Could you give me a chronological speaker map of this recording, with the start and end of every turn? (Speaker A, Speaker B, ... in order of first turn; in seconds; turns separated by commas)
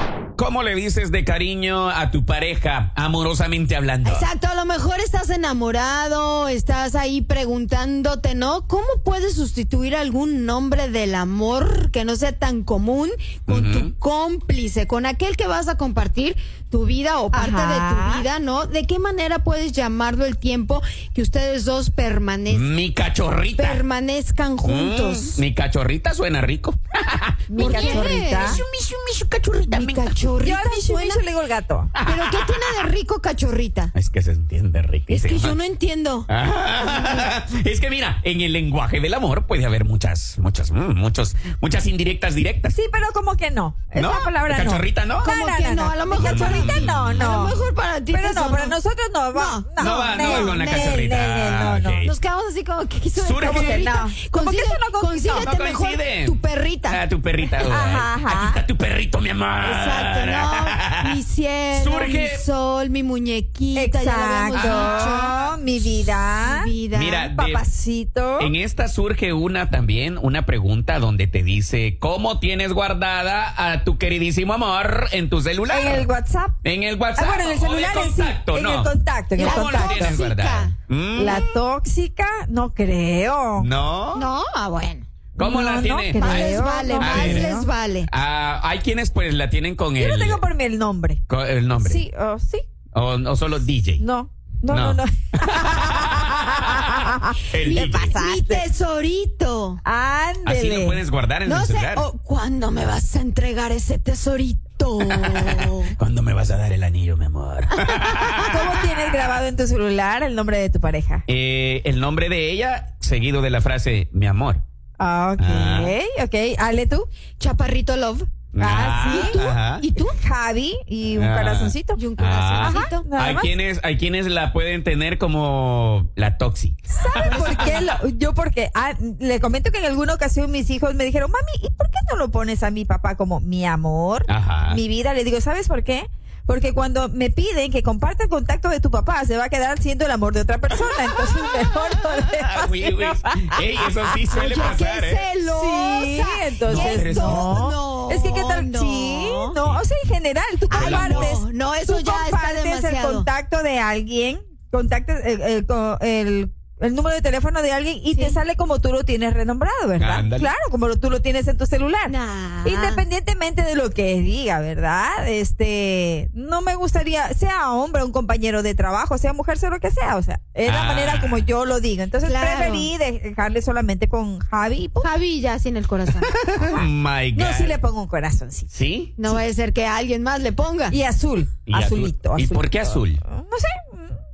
Speaker A: 0.4-4.2, Speaker B: 4.0-22.7, Speaker A: 13.5-13.9, Speaker C: 17.3-18.3, Speaker A: 22.5-23.8, Speaker B: 23.6-25.4, Speaker A: 24.6-30.1, Speaker C: 27.5-28.6, Speaker B: 27.6-28.6, Speaker B: 29.6-31.2, Speaker C: 30.4-31.9, Speaker A: 31.9-32.8, Speaker B: 32.0-33.9, Speaker A: 33.9-35.6, Speaker B: 35.1-36.3, Speaker A: 36.3-42.8, Speaker B: 36.9-37.3, Speaker C: 42.7-52.1, Speaker A: 43.9-45.3, Speaker B: 45.2-48.8, Speaker A: 46.1-47.5, Speaker B: 49.3-51.0, Speaker A: 49.8-52.1, Speaker B: 52.0-57.0, Speaker A: 53.1-53.9, Speaker C: 53.4-55.5, Speaker A: 55.4-61.1, Speaker C: 57.6-58.6, Speaker B: 59.6-65.5, Speaker A: 61.7-62.4, Speaker C: 63.7-66.7, Speaker A: 64.5-65.1, Speaker B: 66.4-67.3, Speaker A: 66.9-67.6, Speaker C: 67.3-68.5, Speaker A: 68.4-76.1, Speaker C: 75.7-76.6, Speaker A: 76.6-81.4, Speaker C: 77.2-80.2, Speaker B: 79.4-80.7, Speaker C: 81.2-83.7, Speaker A: 83.6-84.3, Speaker B: 84.1-85.0, Speaker A: 85.4-87.5, Speaker C: 85.4-87.7, Speaker B: 86.1-88.1, Speaker A: 88.1-90.4, Speaker C: 90.0-91.2, Speaker A: 91.3-92.0, Speaker C: 91.8-92.6, Speaker A: 92.9-94.0, Speaker C: 94.0-98.6, Speaker A: 94.7-98.1, Speaker B: 97.6-99.8, Speaker C: 99.8-101.0, Speaker A: 100.4-102.0, Speaker B: 101.4-105.9, Speaker A: 105.0-109.3, Speaker B: 107.8-108.2, Speaker C: 108.3-111.2, Speaker A: 111.3-114.6, Speaker C: 115.0-117.1, Speaker A: 115.4-115.9, Speaker B: 117.4-118.3, Speaker A: 118.5-119.8, Speaker C: 118.6-119.4, Speaker B: 118.8-120.2, Speaker C: 120.1-122.0, Speaker A: 121.1-127.9, Speaker B: 121.9-123.1, Speaker C: 122.6-123.5, Speaker C: 126.9-144.1, Speaker B: 127.1-128.0, Speaker A: 134.3-134.8, Speaker A: 140.9-145.2, Speaker B: 144.3-149.6, Speaker C: 145.5-175.1, Speaker A: 146.7-147.6, Speaker A: 150.7-151.4, Speaker B: 150.7-153.3, Speaker B: 158.1-158.4, Speaker A: 160.0-160.5, Speaker B: 162.1-163.0, Speaker A: 170.6-171.5, Speaker B: 172.2-172.9, Speaker B: 175.0-176.3, Speaker A: 176.2-177.8, Speaker C: 176.5-178.7, Speaker A: 178.7-179.2, Speaker B: 179.2-181.0, Speaker C: 180.9-184.2, Speaker A: 181.7-183.2